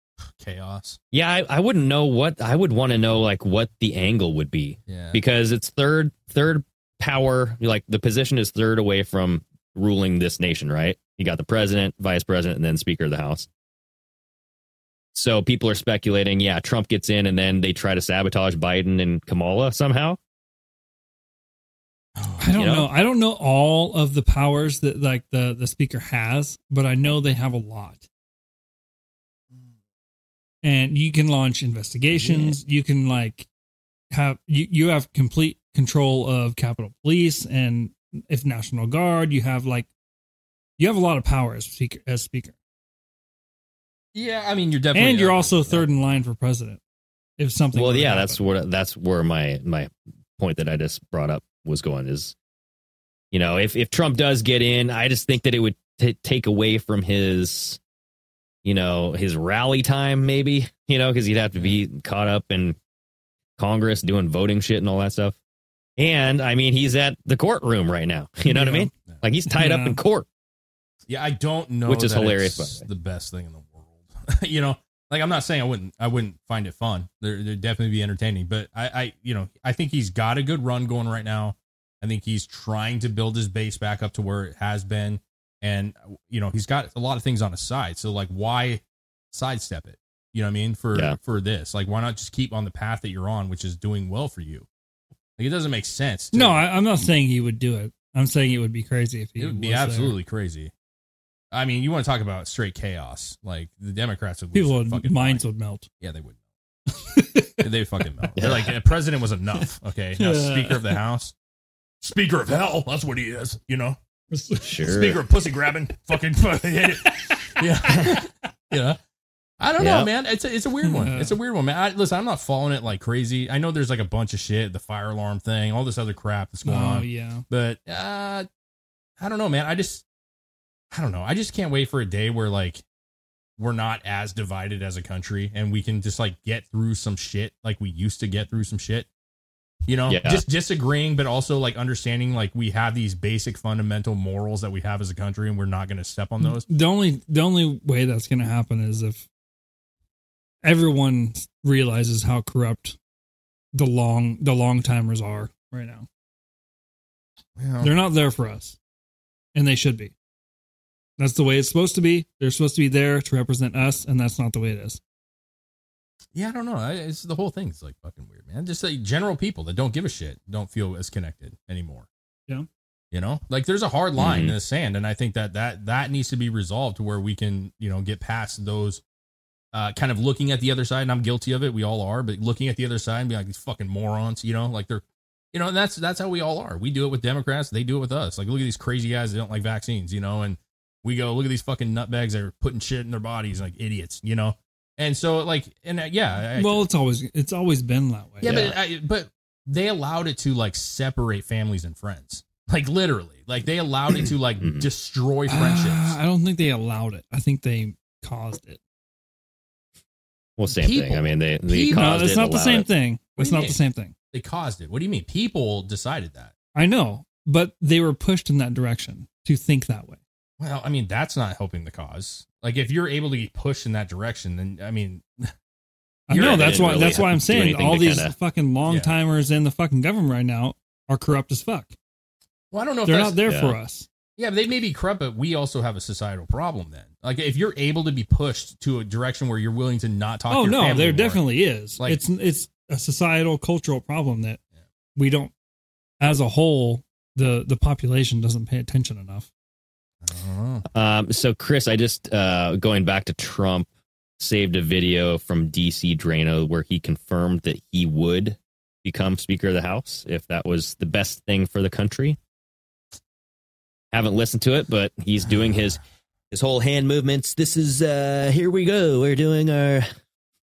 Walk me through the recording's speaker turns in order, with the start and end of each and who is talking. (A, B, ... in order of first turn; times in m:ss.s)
0:00.3-0:01.0 A
0:01.1-0:13.5 B
0:04.9-0:05.2 A
0:15.1-0:20.2 B
0:22.2-0:22.5 A
0:22.4-0:28.0 C
0:22.5-0:22.9 B
0:30.6-0:33.5 C
0:34.1-0:39.9 C
0:40.8-0:42.6 C
0:44.2-0:45.9 A
0:44.9-0:46.8 C
0:47.4-0:48.4 C
0:47.7-0:52.3 B
0:53.3-0:57.8 B
0:58.6-1:02.8 B
1:03.6-1:05.4 B
1:06.0-1:10.3 B
1:08.5-1:08.9 C
1:09.5-1:10.0 C
1:11.1-1:34.7 A
1:11.9-1:12.9 B
1:35.4-1:36.6 A
1:36.3-1:40.2 C
1:39.4-1:40.7 A
1:41.5-1:45.4 A
1:44.5-1:45.9 C
1:46.0-1:46.4 A
1:47.0-1:47.7 C
1:47.6-1:51.3 A
1:48.4-1:48.7 B
1:50.2-1:51.0 C
1:52.0-1:54.0 A
1:54.3-1:54.8 C
1:54.6-1:55.2 B
1:54.8-1:59.0 A
1:57.1-1:57.6 C
1:59.6-2:08.5 A
1:59.8-2:00.1 B
2:00.8-2:01.4 C
2:06.6-2:07.4 C
2:09.2-2:10.0 A
2:10.9-2:12.8 A
2:13.6-2:19.1 A
2:19.9-2:26.6 A
2:20.1-2:20.4 B
2:26.4-2:29.3 C
2:30.6-2:33.0 C
2:33.7-2:36.1 C
2:37.6-2:37.9 A
2:37.8-2:38.8 C
2:39.6-2:40.1 C
2:41.2-2:45.0 C
2:46.3-2:52.1 A
2:53.1-2:59.0 A
2:54.2-2:54.5 B
2:59.7-3:16.8 A
3:16.6-3:18.7 C
3:18.4-3:26.2 A
3:18.4-3:18.8 B
3:24.6-3:24.9 B
3:25.5-3:28.8 C
3:30.6-3:32.9 B
3:30.8-3:32.3 A
3:31.9-3:34.1 C
3:33.4-3:33.8 A
3:34.3-3:36.5 A
3:36.8-3:40.2 C
3:40.6-3:45.5 A
3:46.3-3:52.0 C
3:46.3-3:47.3 A
3:46.3-3:48.3 B
3:48.9-3:49.2 A
3:52.7-3:53.4 A
3:53.0-3:54.1 C
3:53.5-3:53.8 B
3:54.4-4:01.4 A
4:00.5-4:04.6 C
4:05.2-4:05.5 C
4:06.2-4:09.5 C
4:10.2-4:10.8 A
4:10.9-4:22.4 B
4:24.1-4:26.0 B
4:25.5-4:25.8 A
4:26.5-4:30.1 B